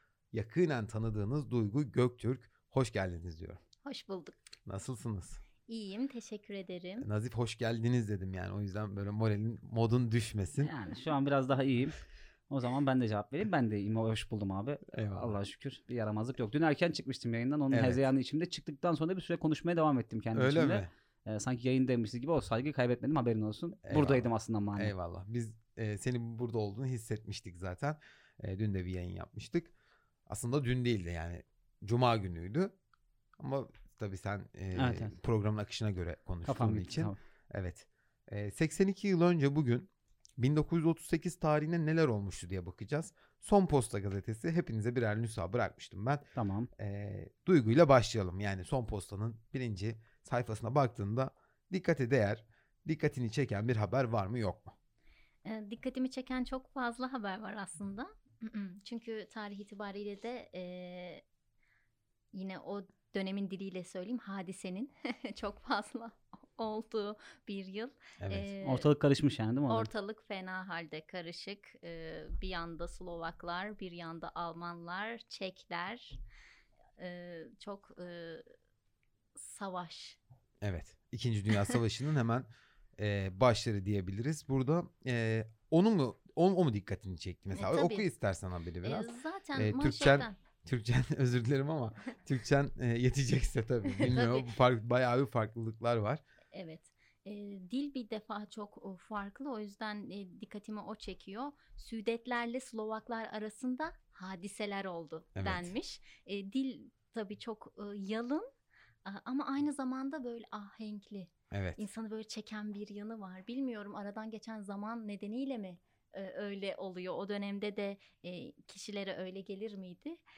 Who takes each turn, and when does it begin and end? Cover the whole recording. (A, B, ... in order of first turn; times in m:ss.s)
0:00.3-0:03.6 A
0:03.8-0:04.4 B
0:04.6-0:05.4 A
0:05.7-0:07.1 B
0:07.0-0:10.7 A
0:10.6-0:12.0 C
0:12.5-0:24.9 C
0:14.9-0:15.4 A
0:17.7-0:18.0 A
0:20.3-0:20.9 A
0:23.8-0:29.7 A
0:30.3-0:32.7 A
0:33.4-0:54.7 A
0:34.7-0:35.2 C
0:36.4-0:37.2 C
0:46.4-0:46.7 C
0:55.4-1:01.2 B
1:02.3-1:08.9 B
1:08.2-1:08.5 A
1:08.6-1:09.9 C
1:09.7-1:16.2 B
1:17.0-1:18.4 B
1:19.4-1:20.2 B
1:20.6-1:36.2 A
1:27.5-1:28.1 B
1:28.8-1:30.3 B
1:34.0-1:34.5 B
1:36.5-1:48.5 B
1:45.4-1:45.7 A
1:49.0-2:00.2 B
1:51.5-1:51.8 A